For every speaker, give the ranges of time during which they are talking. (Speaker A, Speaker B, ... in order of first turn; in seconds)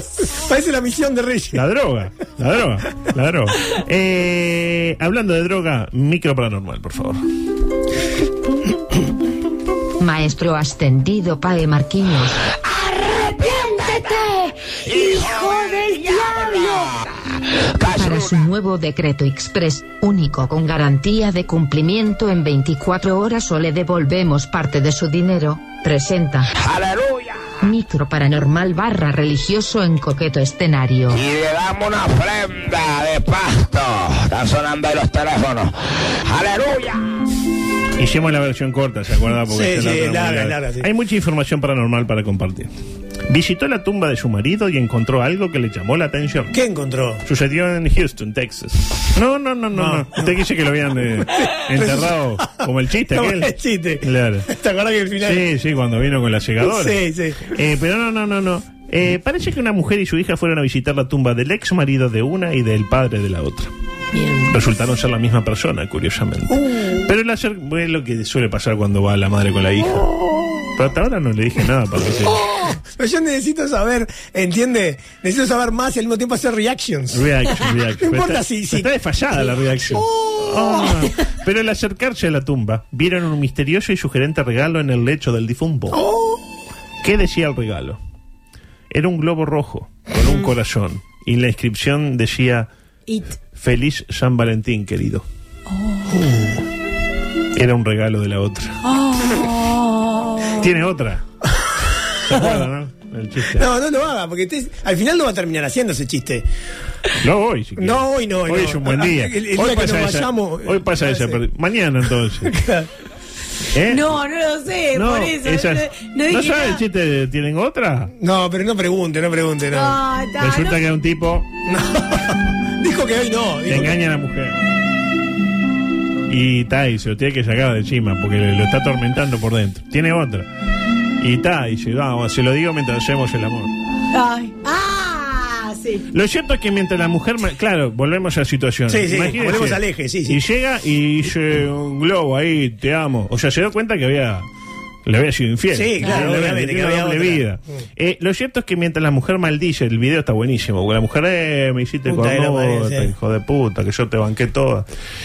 Speaker A: 0.3-1.6, 39.5-40.9, 46.5-47.2, 49.7-50.3, 51.3-55.4, 56.6-57.5, 66.5-67.1, 69.9-70.7, 72.3-77.3, 78.0-78.9, 79.9-80.8, 85.9-86.4, 96.1-96.6, 103.5-106.5, 107.8-111.4, 112.4-112.9, 118.2-120.0, 121.7-124.0, 138.9-140.4, 145.7-147.8, 152.1-153.1
Speaker B: 1.5-7.2, 38.0-42.7, 43.3-46.5, 47.2-53.5, 54.0-54.5, 55.2-63.7, 64.5-70.1, 70.8-72.5, 77.1-86.0, 87.0-88.0, 88.9-92.7, 93.5-95.2, 97.5-98.8, 100.6-101.2, 102.2-103.7, 107.2-112.5, 113.7-114.1, 114.9-118.1, 120.4-121.5, 123.7-124.6, 126.3-130.5, 131.2-133.7, 136.1-144.5, 145.1-154.9
Speaker C: 10.0-12.4, 17.8-26.5, 27.6-31.2
Speaker D: 13.0-14.2, 14.9-16.9, 17.8-18.3, 26.6-27.5, 31.1-35.7, 36.2-37.0
Speaker E: 14.9-16.9, 64.1-64.5, 95.7-96.1, 98.8-100.7, 113.9-116.8, 119.7-120.8, 134.1-136.1